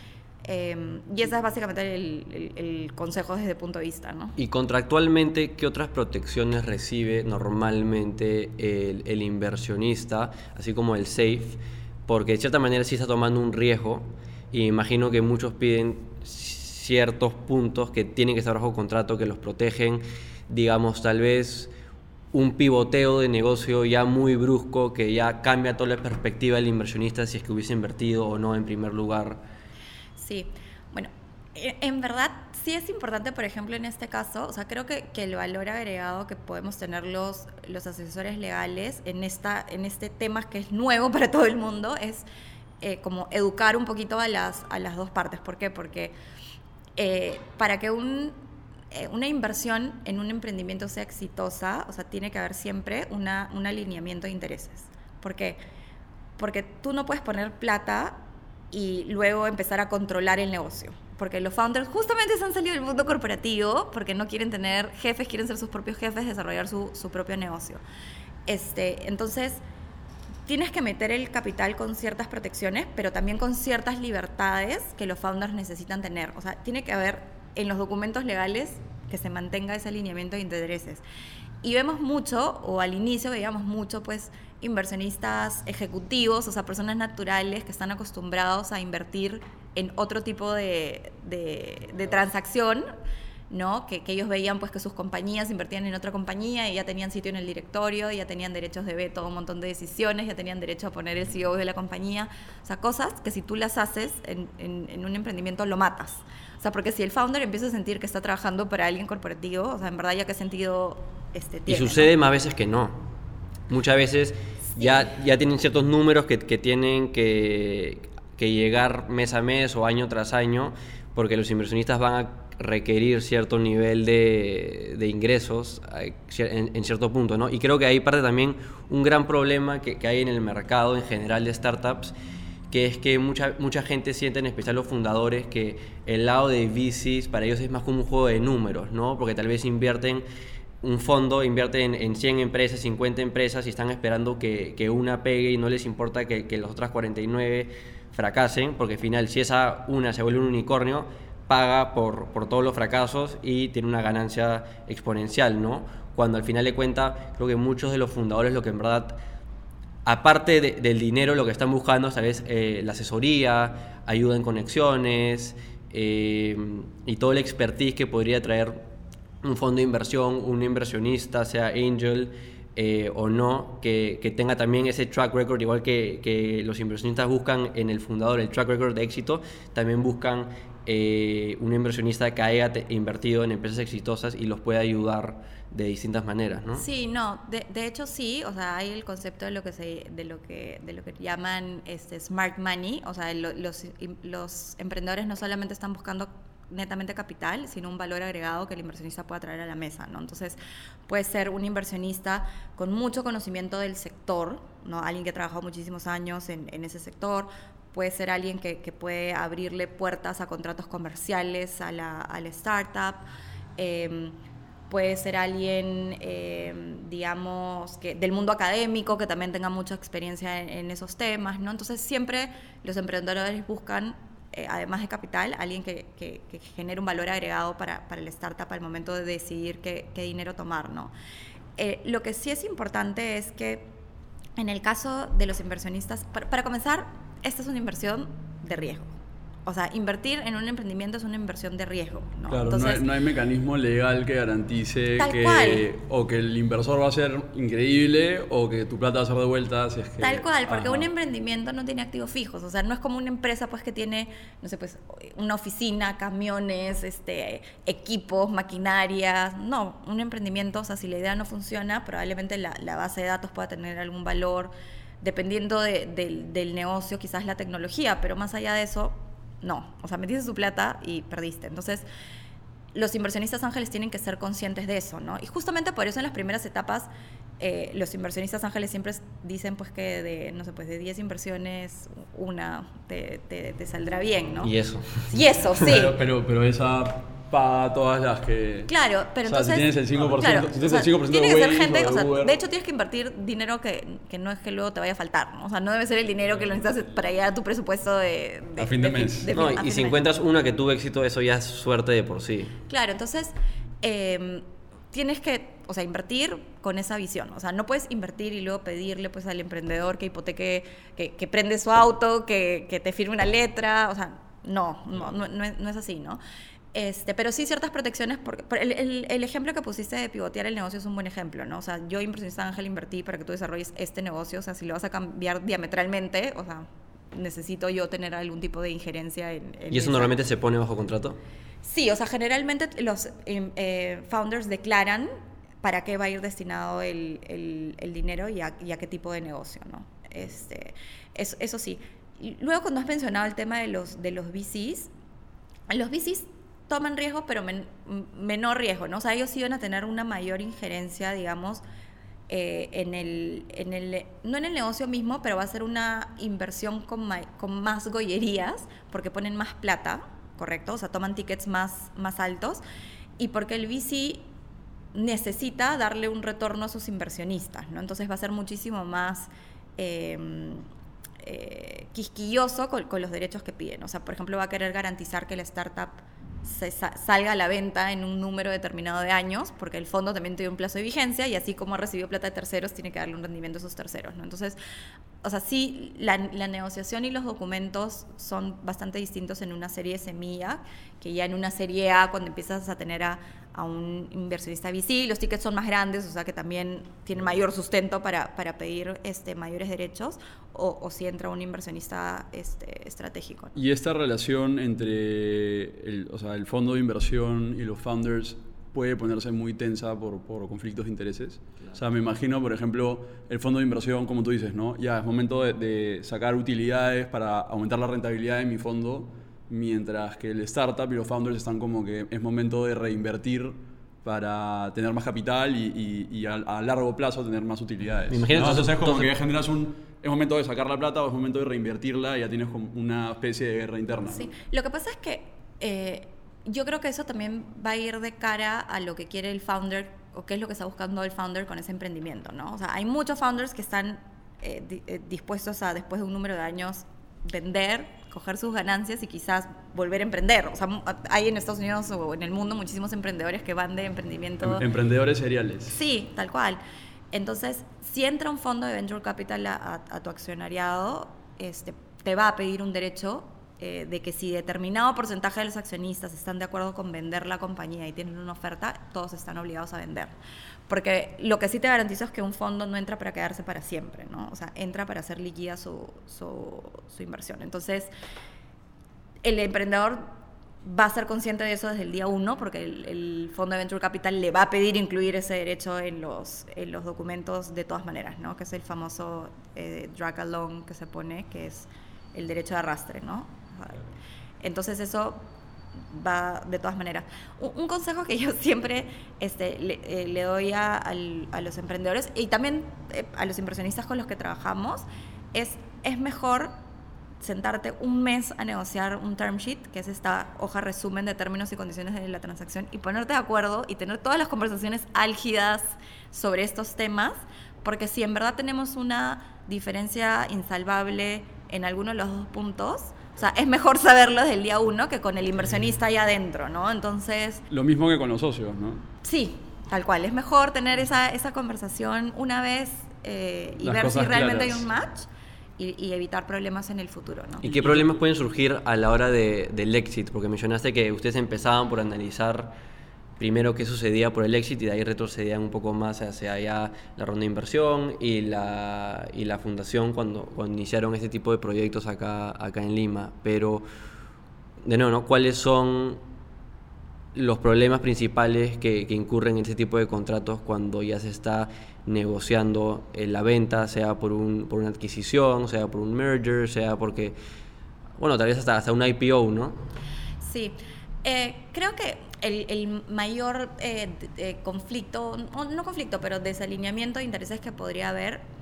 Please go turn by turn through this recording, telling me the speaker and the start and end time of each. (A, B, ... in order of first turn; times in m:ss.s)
0:00.4-0:04.4 A
0:04.4-0:21.7 B
0:22.3-0:29.4 B
0:30.2-0:42.2 A
0:42.8-0:46.1 A
0:47.0-0:48.4 A
0:48.9-0:55.6 A
0:56.4-0:58.2 A
0:58.7-1:07.8 A
1:08.5-1:09.6 A
1:10.4-1:21.0 A
1:21.6-1:32.9 A
1:33.5-1:52.1 A
1:51.7-1:53.0 B
1:53.7-2:12.1 B
1:54.8-1:55.1 A
2:12.7-2:20.2 B
2:20.8-2:39.2 B
2:40.0-2:48.8 B
2:49.4-3:06.8 B
3:06.8-3:33.2 A
3:33.8-3:34.4 A
3:34.9-3:51.1 A
3:51.8-3:53.9 A
3:54.6-3:59.1 A
3:59.6-4:03.1 A
4:02.5-4:11.1 C
4:05.2-4:05.9 A
4:10.2-4:32.0 A
4:32.9-4:46.2 A
4:44.6-4:45.3 B
4:45.8-4:48.9 C
4:48.9-5:00.2 A
4:49.4-4:52.6 C
4:58.8-4:59.5 C
4:59.5-5:02.8 B
5:02.9-5:16.4 A
5:16.9-5:30.4 A
5:29.9-5:31.4 B
5:31.8-5:45.1 A
5:45.9-5:51.8 A
5:52.5-6:02.8 A
6:03.4-6:04.5 A
6:05.1-6:10.9 A
6:11.4-6:24.8 A
6:25.4-6:43.8 A
6:43.7-7:14.5 C
7:08.3-7:09.3 B
7:14.3-7:34.8 A
7:34.6-7:36.0 C
7:35.9-7:36.8 A
7:37.3-7:50.3 A
7:50.9-7:58.1 A
7:59.4-8:00.3 A
8:00.8-8:14.1 A
8:14.6-8:15.5 A
8:16.1-8:26.8 A
8:27.4-8:47.6 A
8:47.7-8:49.0 C
8:49.2-8:57.6 A
8:53.8-8:54.9 C
8:57.6-9:02.7 B
8:57.6-8:58.2 C
9:03.4-9:13.8 B
9:14.8-9:16.2 B
9:17.3-9:27.4 B
9:28.2-9:29.8 B
9:30.4-9:38.4 A